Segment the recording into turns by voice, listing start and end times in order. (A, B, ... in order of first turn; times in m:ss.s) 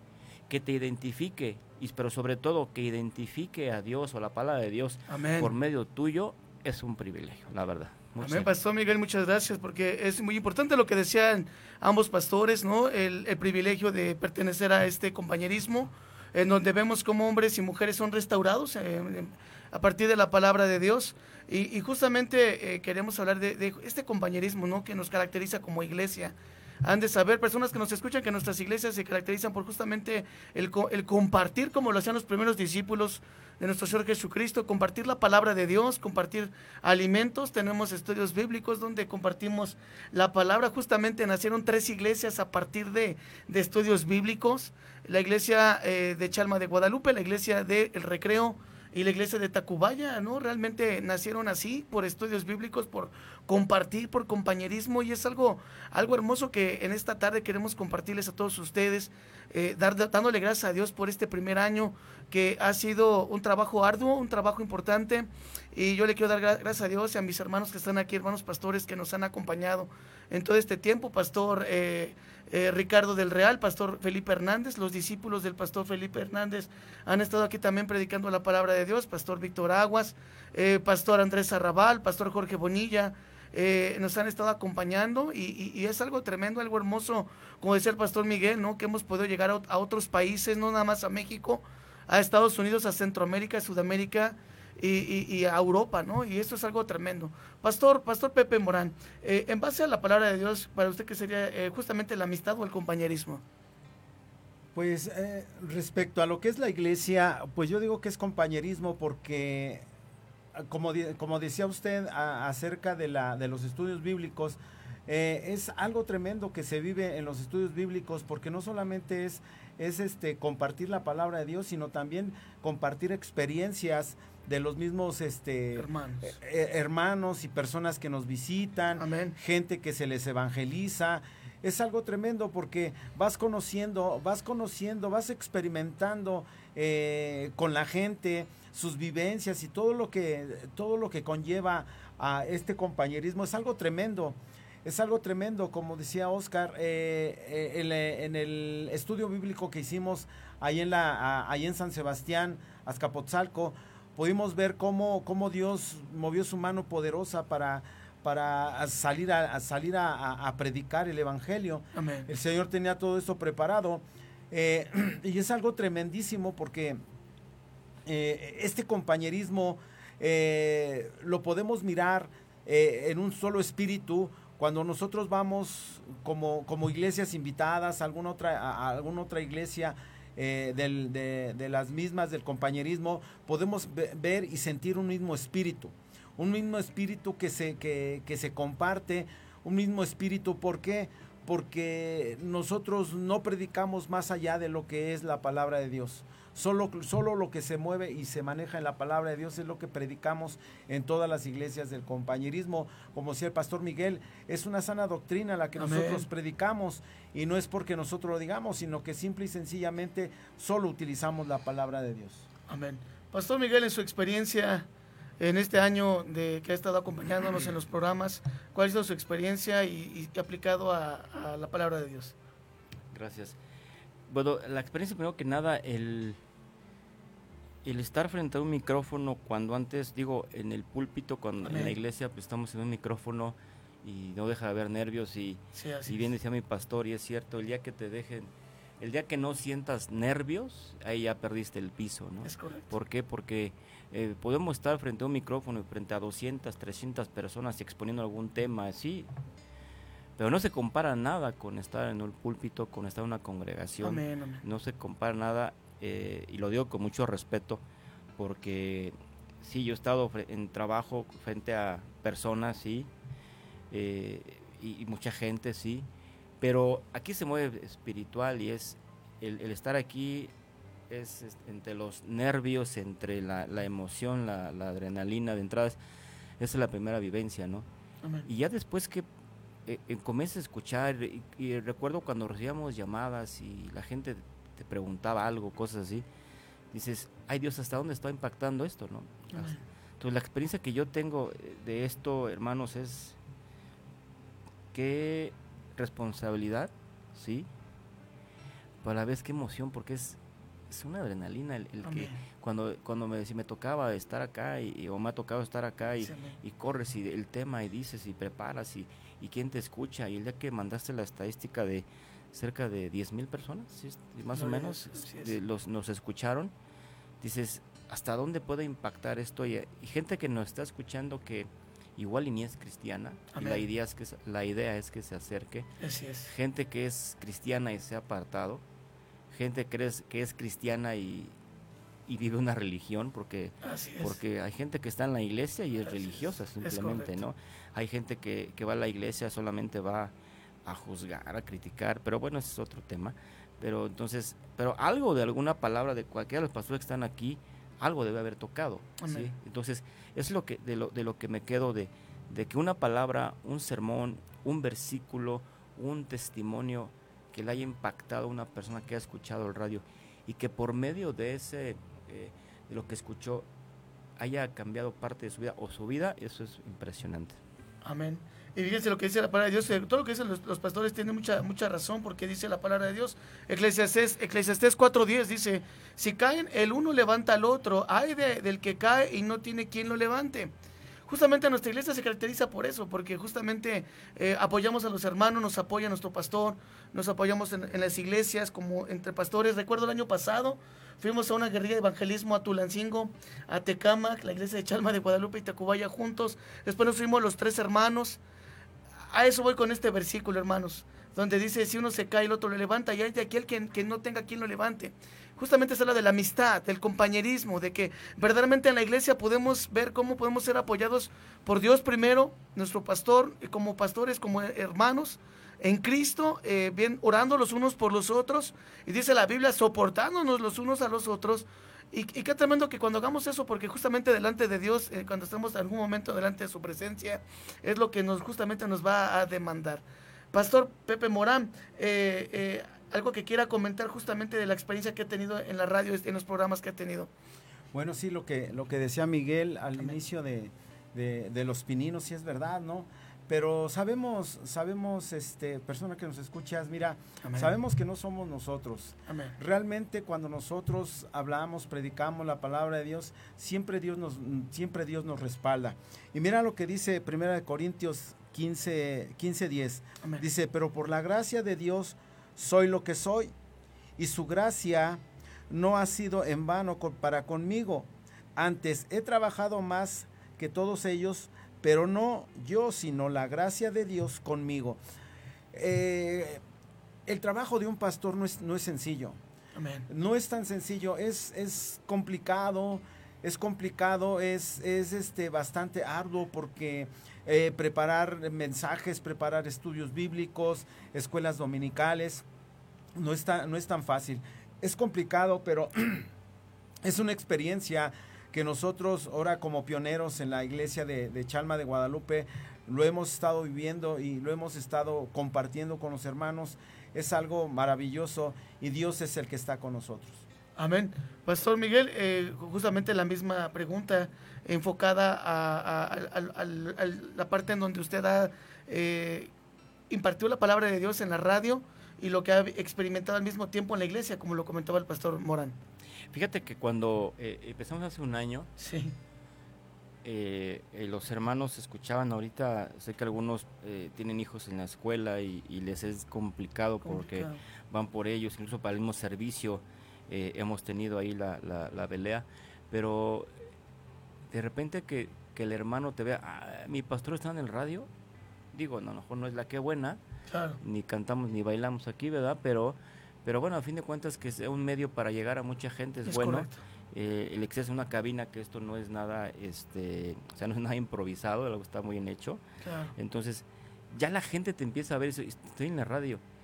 0:00.5-0:08.5 A
0:05.1-0:05.5 B
0:08.2-1:43.4 B
1:44.7-1:49.8 C
1:50.5-2:47.0 C
2:05.8-2:06.4 B
2:09.0-2:09.3 B
2:42.0-2:42.3 B
2:48.0-3:32.5 C
3:25.8-3:26.2 B
3:32.7-3:34.9 B
3:35.4-3:42.3 B
3:43.1-3:43.6 A
3:44.3-3:46.4 A
3:47.8-3:58.5 A
3:51.6-3:51.9 B
3:55.7-3:56.2 B
3:59.0-4:09.3 A
4:02.4-4:02.9 B
4:10.4-4:17.8 A
4:14.0-4:14.6 B
4:18.4-4:23.1 A
4:23.9-4:26.1 A
4:26.6-4:30.5 A
4:31.1-4:36.0 A
4:36.6-4:37.9 A
4:38.4-4:39.3 A
4:39.8-4:46.2 A
4:46.9-4:53.4 A
4:49.5-4:49.8 B
4:54.9-4:57.7 A
4:59.0-5:00.4 A
5:00.9-5:16.7 A
5:02.0-5:02.4 B
5:06.2-5:06.5 B
5:14.5-5:15.5 B
5:17.4-5:25.9 A
5:23.5-5:23.8 B
5:26.0-5:26.5 B
5:26.4-5:28.8 A
5:29.5-5:31.5 A
5:32.3-5:40.3 A
5:33.8-5:34.4 B
5:36.8-5:37.4 B
5:40.8-6:03.7 A
5:49.2-5:49.5 B
6:04.4-6:07.6 A
6:08.0-6:20.7 B
6:21.3-6:38.4 B
6:39.3-7:17.3 B
7:17.9-7:43.5 C
7:27.4-7:27.7 B
7:29.3-7:29.5 B
7:44.2-7:55.0 C
7:55.7-7:56.6 C
7:57.2-7:59.4 C
7:59.8-8:00.0 B
8:00.1-8:12.4 C
8:13.1-8:16.3 C
8:17.0-8:30.4 C
8:30.8-8:39.5 B
8:40.1-8:45.8 B
8:46.3-8:48.7 A
8:48.8-8:49.2 B
8:50.2-9:03.6 A
8:57.0-8:57.6 B
9:04.5-9:08.1 A
9:08.7-9:10.2 A
9:10.5-9:10.8 B
9:10.8-9:22.6 A
9:16.2-9:16.8 B
9:22.8-9:23.1 B
9:23.2-9:26.4 A